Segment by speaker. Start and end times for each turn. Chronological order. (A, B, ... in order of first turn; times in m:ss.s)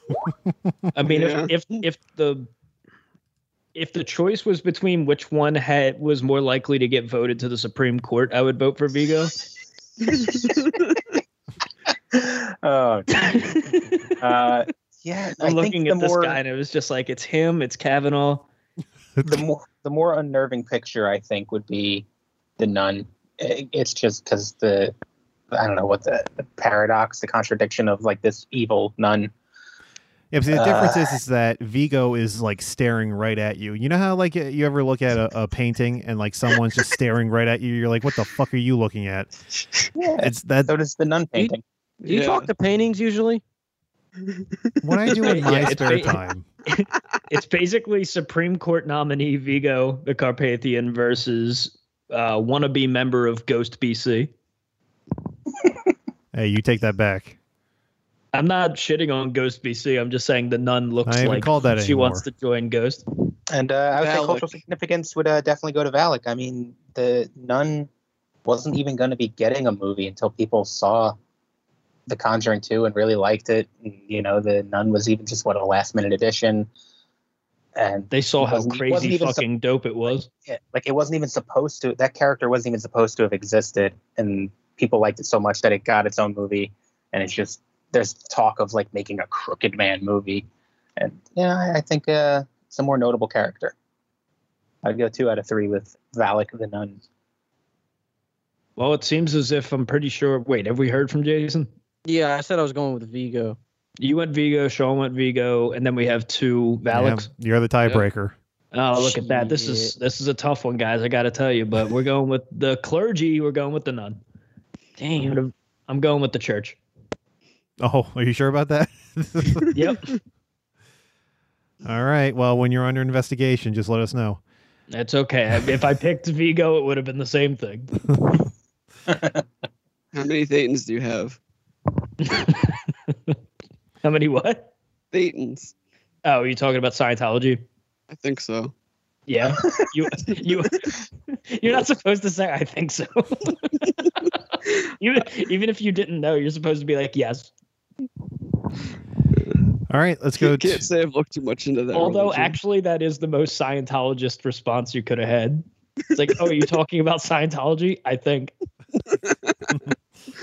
0:00.9-0:02.5 A
0:01.1-0:01.5 B
0:03.7-0:09.3 A
0:10.1-0:10.9 B
0:10.1-0:10.6 C
0:12.1-0:16.4 C
0:13.2-0:14.1 A
0:15.4-0:18.4 A
0:19.2-0:19.4 D
0:19.2-0:22.0 C
0:22.6-0:24.9 C
0:25.5-0:29.3 C
0:30.3-0:39.3 D
0:30.5-0:31.1 C
0:40.0-0:41.6 C
0:40.2-0:40.7 D
0:41.4-0:43.4 E
0:42.0-0:42.5 B
0:44.8-0:46.4 D
0:45.1-0:45.6 B
0:45.2-0:54.3 A
0:56.3-0:57.4 D
0:58.3-1:03.0 A
1:01.0-1:02.2 D
1:03.5-1:07.9 C
1:04.0-1:04.6 B
1:08.4-1:11.2 C
1:12.1-1:16.7 C
1:17.8-1:19.4 C
1:18.1-1:20.3 A
1:20.5-1:30.5 C
1:31.0-1:33.7 C
1:34.8-1:37.0 C
1:38.8-1:41.7 A
1:42.0-1:43.6 E
1:44.0-1:47.3 A
1:46.9-1:48.3 D
1:48.7-1:54.2 A
1:49.0-1:49.9 E
1:55.0-1:55.4 E
1:55.2-1:56.8 A
1:57.8-1:59.7 D
1:59.7-2:00.1 A
2:01.8-2:04.4 D
2:04.9-2:07.9 A
2:09.1-2:09.4 C
2:10.1-2:11.4 B
2:12.2-2:13.3 A
2:14.0-2:14.7 A
2:15.1-2:15.7 B
2:16.2-2:17.6 A
2:18.1-2:18.7 B
2:19.3-2:20.9 A
2:21.5-2:27.5 A
2:29.9-2:30.9 D
2:30.4-2:32.6 B
2:31.9-2:38.5 A
2:39.0-2:39.7 B